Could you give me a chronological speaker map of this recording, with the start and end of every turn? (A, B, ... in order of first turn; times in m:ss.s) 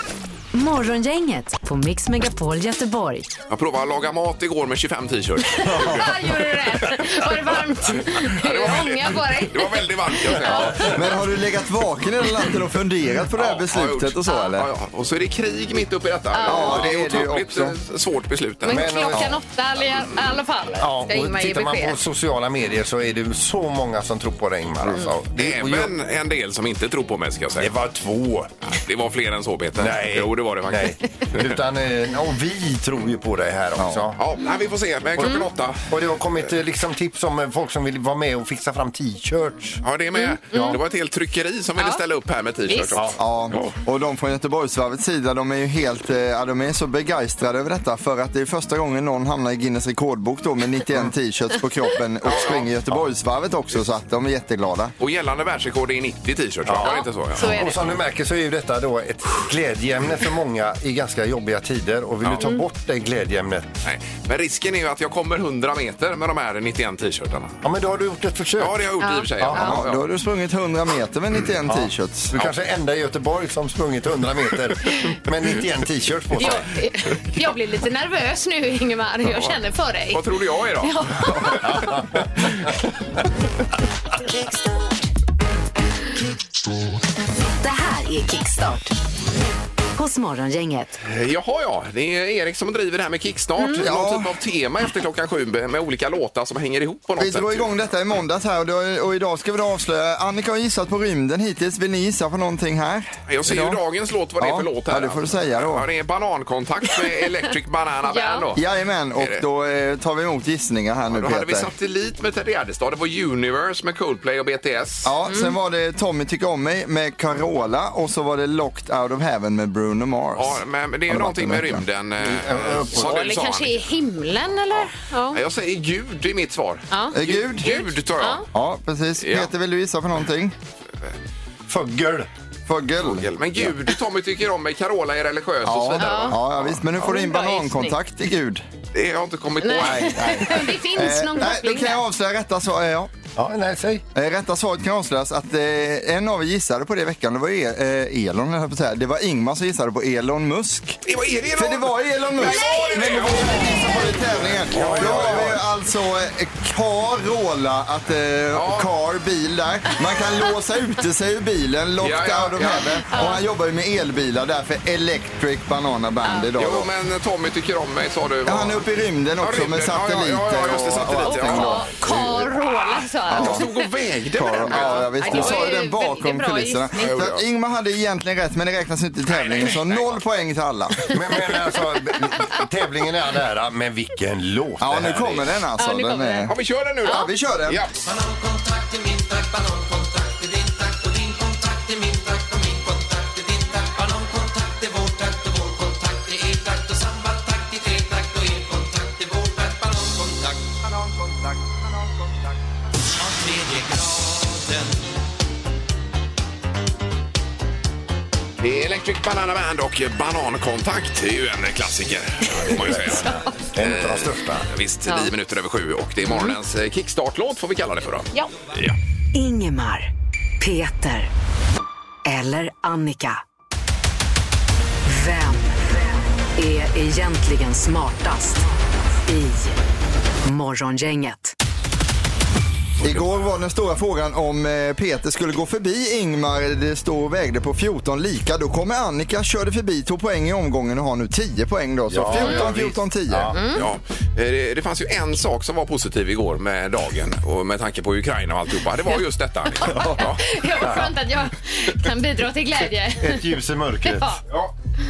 0:00.5-0:03.4 A
0:03.5-0:06.2 B
0:05.6-0:10.9 C
0:05.7-0:06.1 D
0:07.9-0:11.0 B
0:10.5-0:14.7 D
0:13.3-0:19.2 B
0:16.3-0:17.0 C
0:16.4-0:17.8 D
0:18.6-0:22.0 C
0:18.6-0:19.4 E
0:20.8-0:25.9 E
0:25.3-0:27.7 B
0:27.6-0:28.5 E
0:28.6-0:31.5 B
0:29.8-0:34.2 E
0:33.8-0:34.1 D
0:34.2-0:35.8 B
0:35.2-0:39.8 E
0:39.8-0:43.8 B
0:40.2-0:40.8 C
0:40.5-0:40.8 E
0:42.7-0:42.9 C
0:42.9-0:43.2 E
0:43.2-0:54.9 D
0:52.2-0:52.7 B
0:55.0-0:57.8 B
0:56.6-1:03.8 E
0:56.8-0:57.9 C
1:03.8-1:07.6 B
1:07.6-1:08.8 E
1:08.6-1:10.0 B
1:09.0-1:09.8 C
1:09.4-1:09.7 E
1:09.6-1:12.3 D
1:11.6-1:16.7 E
1:16.4-1:20.2 C
1:19.3-1:19.5 B
1:20.1-1:22.7 B
1:20.8-1:21.8 C
1:21.6-1:22.2 E
1:27.6-1:28.9 A
1:29.9-1:31.0 A
1:31.0-1:37.7 B
1:33.7-1:34.3 D
1:37.2-1:43.8 D
1:43.3-1:48.6 B
1:44.4-1:45.8 D
1:48.1-1:48.5 C
1:48.5-1:51.7 D
1:49.2-1:49.4 B
1:51.1-1:55.1 B
1:55.0-2:01.8 D
1:55.3-1:55.6 C
2:00.3-2:03.9 B
2:02.2-2:03.2 E
2:02.9-2:05.4 C
2:04.8-2:08.4 B
2:06.9-2:08.4 C
2:07.1-2:07.7 D
2:08.5-2:10.5 D
2:09.2-2:09.5 B
2:11.7-2:12.3 E
2:12.7-2:13.6 D
2:13.0-2:16.8 B
2:15.6-2:18.6 D
2:16.0-2:16.4 C
2:17.0-2:18.0 C
2:18.9-2:20.6 B
2:19.6-2:22.0 C
2:19.8-2:23.1 D
2:23.4-2:24.0 E
2:24.1-2:31.0 D
2:31.0-2:35.6 B
2:31.5-2:46.9 D
2:34.7-2:35.6 E
2:38.5-2:38.9 B
2:42.0-2:43.0 B
2:43.1-2:43.4 C
2:46.2-2:46.5 C
2:46.6-2:48.8 B
2:48.4-2:51.9 D
2:49.4-2:51.8 B
2:51.2-2:53.8 C
2:52.0-2:52.5 E
2:53.3-2:53.6 D
2:53.3-2:55.8 B
2:54.3-3:01.1 D
2:54.7-2:57.2 C
2:57.0-2:57.4 B
2:59.3-3:00.2 B
3:01.1-3:05.4 E
3:04.8-3:06.5 D
3:05.8-3:06.5 C
3:06.5-3:07.9 B
3:07.0-3:07.3 C
3:07.0-3:07.8 D
3:28.6-3:39.0 B
3:32.6-3:34.7 E
3:36.2-3:36.5 C
3:39.3-3:41.3 A
3:42.2-3:43.4 A
3:45.0-3:45.8 A
3:46.6-3:48.6 A
3:49.2-3:49.8 A
3:50.4-3:51.5 A
3:53.0-4:03.6 D
4:02.1-4:03.6 E
4:03.5-4:03.8 C
4:03.8-4:10.4 B
4:09.8-4:13.5 C
4:10.8-4:11.1 E
4:13.2-4:14.4 E
4:14.0-4:14.4 C